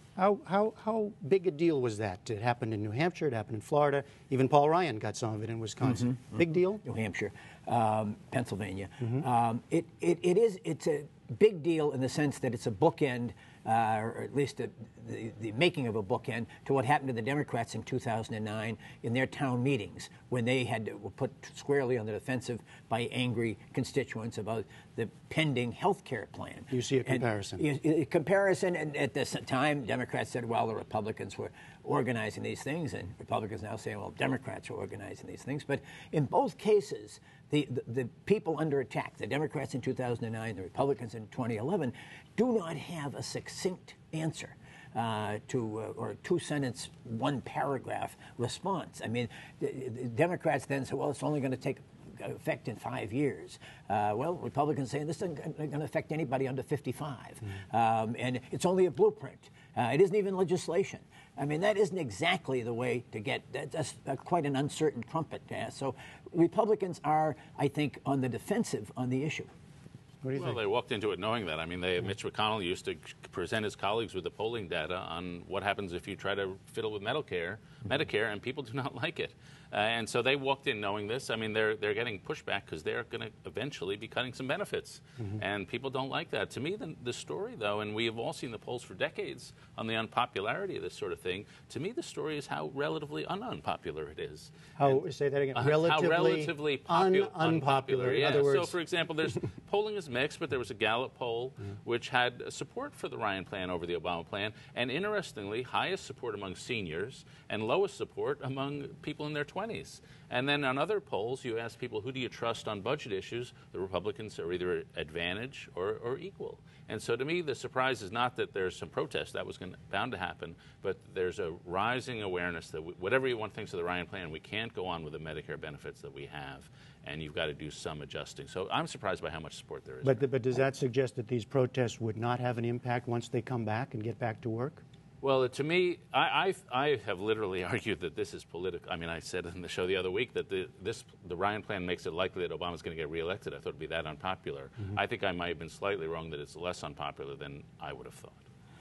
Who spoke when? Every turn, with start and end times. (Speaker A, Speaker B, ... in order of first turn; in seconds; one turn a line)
Speaker A: 0.1-6.8
Speaker B: 5.8-69.5
Speaker A: 26.7-27.6
Speaker A: 70.2-70.6
Speaker C: 70.3-95.0
Speaker A: 94.8-98.8
Speaker C: 95.5-130.3
Speaker A: 130.0-134.8
Speaker C: 135.2-148.4